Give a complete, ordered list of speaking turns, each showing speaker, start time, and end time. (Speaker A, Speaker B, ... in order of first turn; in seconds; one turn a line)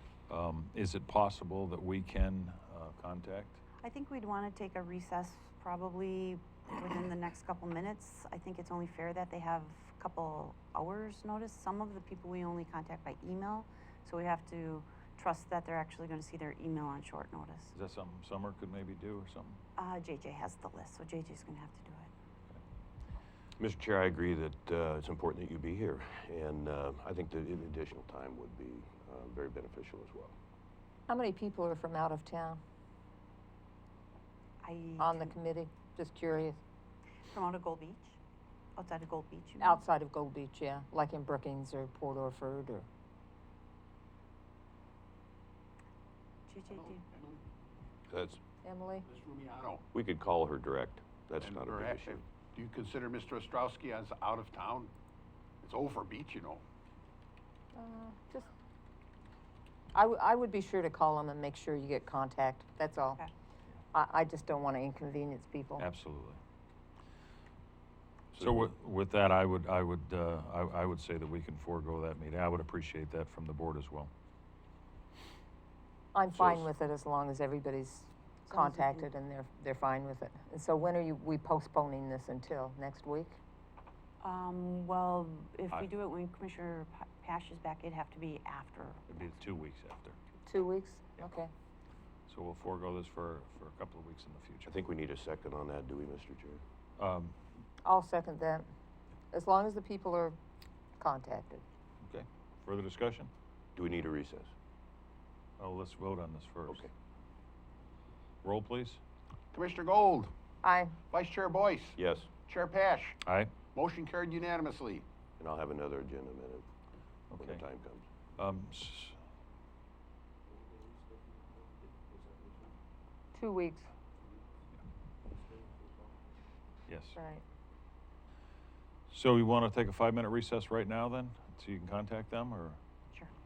Speaker A: 0.3-3.6
Speaker B: 3.8-17.7
Speaker A: 17.7-19.6
Speaker B: 19.8-22.1
Speaker C: 23.6-30.4
Speaker D: 31.1-32.6
Speaker B: 34.6-35.3
Speaker D: 35.0-36.6
Speaker B: 37.3-38.2
Speaker B: 38.8-39.8
Speaker D: 39.6-42.9
Speaker B: 46.5-47.0
Speaker E: 47.1-47.4
Speaker C: 48.1-48.4
Speaker D: 48.6-49.1
Speaker E: 49.1-49.8
Speaker C: 49.9-52.2
Speaker E: 51.4-54.9
Speaker E: 55.6-56.6
Speaker D: 57.7-58.5
Speaker D: 59.9-63.2
Speaker D: 63.9-65.8
Speaker A: 65.8-66.4
Speaker A: 68.4-74.1
Speaker D: 76.1-83.4
Speaker B: 78.5-79.0
Speaker B: 84.2-89.0
Speaker A: 89.1-90.2
Speaker D: 90.5-91.5
Speaker A: 92.3-94.7
Speaker C: 94.7-96.6
Speaker A: 97.0-97.3
Speaker D: 97.8-98.7
Speaker D: 99.3-100.3
Speaker D: 101.0-101.6
Speaker A: 102.0-103.3
Speaker C: 103.8-104.5
Speaker A: 105.6-106.8
Speaker A: 108.4-109.0
Speaker E: 109.5-110.3
Speaker D: 110.6-111.0
Speaker E: 111.1-113.2
Speaker C: 112.0-112.3
Speaker A: 113.2-113.6
Speaker E: 113.7-115.0
Speaker C: 115.4-116.7
Speaker A: 117.3-117.6
Speaker C: 117.4-118.0
Speaker A: 118.4-119.2
Speaker D: 123.3-123.9
Speaker A: 126.9-127.2
Speaker D: 127.1-127.4
Speaker A: 129.1-132.8